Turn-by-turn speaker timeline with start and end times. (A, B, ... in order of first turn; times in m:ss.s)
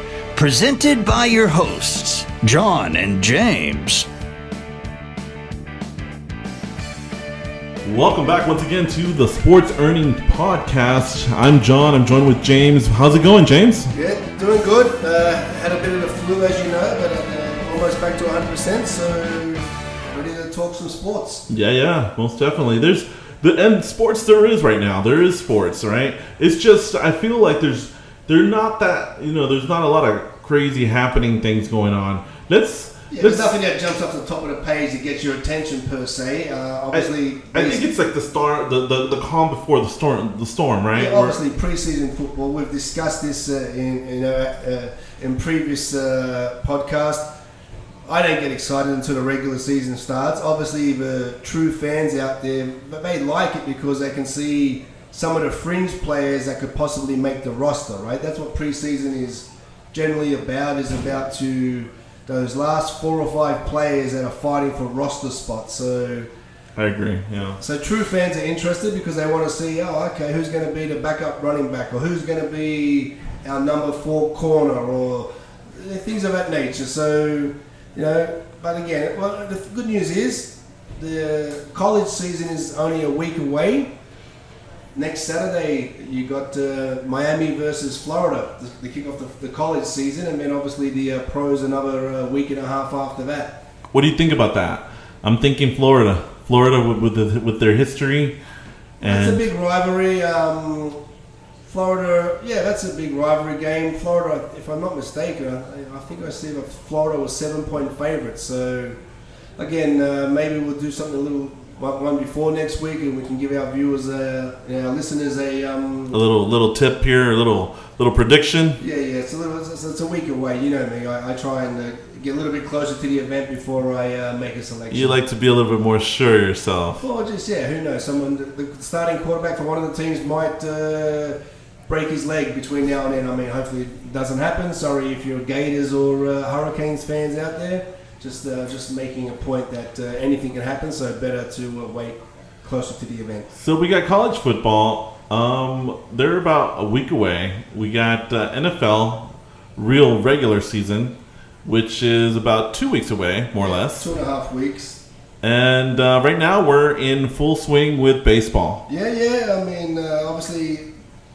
0:00.4-0:04.1 A
0:07.8-0:13.9 B
0:13.9-0:21.4 C
0:21.5-0:33.5 B
0:33.1-0:37.9 C
0:36.9-0:41.4 B
0:40.9-0:47.3 C
0:48.0-1:06.3 C
1:06.8-1:07.6 B
1:07.6-1:23.9 C
1:24.9-1:33.6 C
1:33.9-1:38.4 B
1:39.0-1:39.4 B
1:39.0-1:41.0 C
1:41.6-1:49.0 C
1:49.6-1:56.2 C
1:56.1-1:58.8 B
1:58.8-2:05.2 C
2:04.9-2:07.0 B
2:07.0-2:23.5 C
2:23.5-2:34.1 B
2:33.6-2:35.0 C
2:35.4-2:38.8 B
2:38.9-2:40.9 C